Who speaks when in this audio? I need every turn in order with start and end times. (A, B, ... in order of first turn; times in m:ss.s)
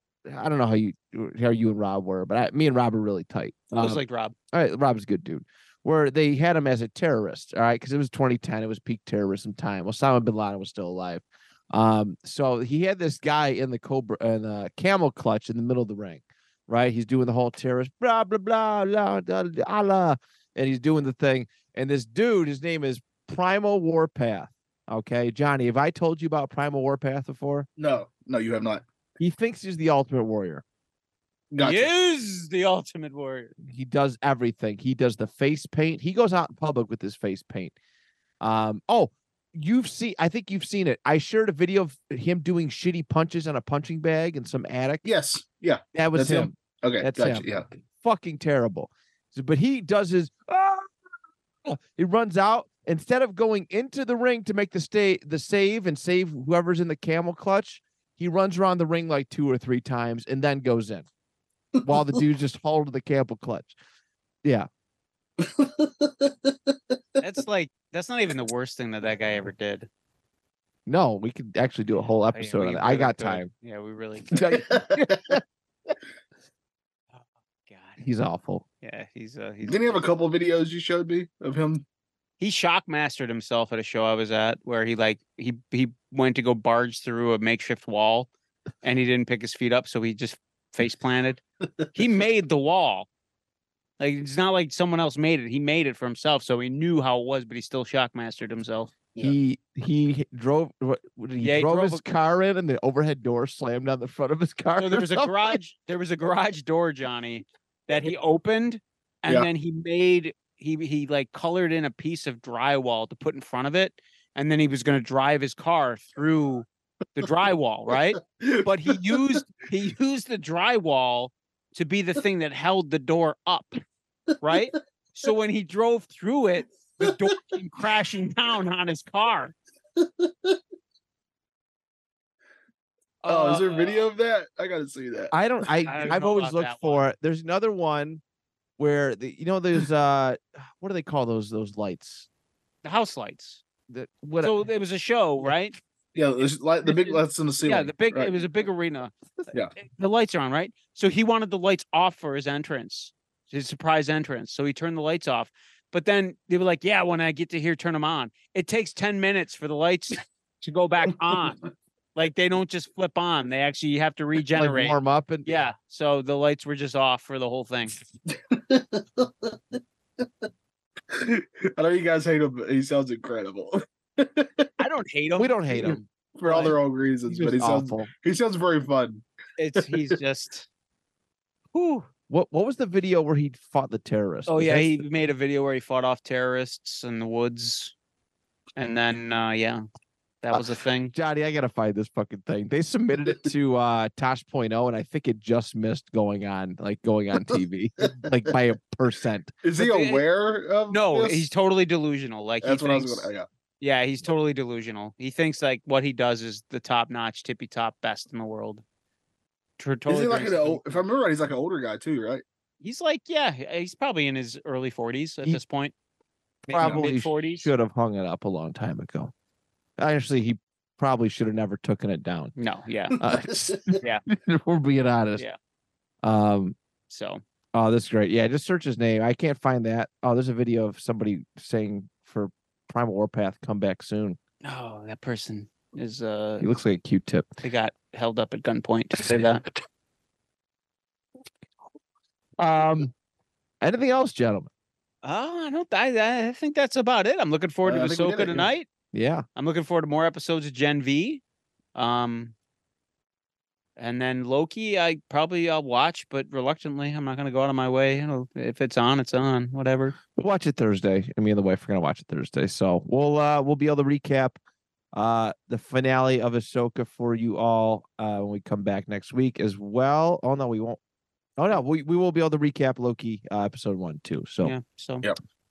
0:00.3-0:27.7 A
0:03.7-0:04.3 B
0:27.8-0:28.8 C
0:29.2-0:30.6 A
0:31.5-0:31.9 C
0:31.6-0:33.5 B
0:33.6-0:37.7 A
0:38.4-0:45.0 A
0:45.0-0:47.6 C
0:45.9-0:47.4 A
0:48.0-0:50.9 A
0:51.6-1:01.1 A
1:01.8-1:03.7 A
1:07.2-1:09.9 B
1:10.8-1:13.5 A
1:11.9-1:14.4 B
1:14.3-1:15.4 A
1:17.1-1:18.0 B
1:18.0-1:18.6 A
1:18.8-1:20.0 B
1:19.6-1:21.8 C
1:22.4-1:28.3 B
1:28.8-1:31.4 B
1:31.9-1:33.1 B
1:34.0-1:38.9 B
1:39.2-1:45.6 A
1:41.4-1:42.0 B
1:44.8-2:03.8 B
1:58.4-1:59.2 C
2:04.4-2:09.5 B
2:13.2-2:14.1 B
2:13.3-2:15.3 C
2:15.3-2:18.2 A
2:15.8-2:17.0 B
2:18.8-2:22.3 A
2:22.8-2:23.6 B
2:23.9-2:24.6 A
2:24.4-2:25.8 B
2:26.1-2:28.4 C
2:26.9-2:29.1 B
2:29.8-2:41.6 B
2:42.1-2:47.9 B
2:44.6-2:45.5 A
2:51.1-2:54.7 C
2:54.8-2:56.7 B
2:55.4-2:56.0 A
2:56.4-2:59.2 C
2:57.3-2:58.1 A
2:59.6-3:00.7 B
3:01.7-3:02.1 B
3:02.3-3:05.0 A
3:04.5-3:07.9 B
3:08.8-3:09.8 B
3:10.4-3:11.1 B
3:10.5-3:19.5 A
3:19.6-3:21.4 C
3:19.8-3:20.2 B
3:20.9-3:28.8 B
3:22.6-3:23.4 C
3:29.8-3:31.0 B
3:30.1-3:32.4 C
3:32.8-3:35.9 B
3:36.7-3:37.7 B
3:36.7-3:39.3 A
3:36.8-3:37.0 C
3:40.0-3:42.5 A
3:42.6-3:43.2 B
3:43.2-3:45.4 A
3:46.2-3:46.8 A
3:47.1-3:47.4 B
3:47.7-3:54.4 A
3:54.6-3:56.6 B
3:56.6-3:57.5 A
3:57.6-3:59.6 B
4:02.6-4:03.1 A
4:03.8-4:04.7 A
4:05.2-4:08.9 B
4:07.8-4:08.7 C
4:09.1-4:09.4 A
4:09.6-4:11.4 B
4:11.9-4:12.5 B
4:14.0-4:20.2 B
4:20.4-4:24.6 A
4:25.1-4:31.0 A
4:31.6-4:34.7 A
4:34.6-4:35.3 B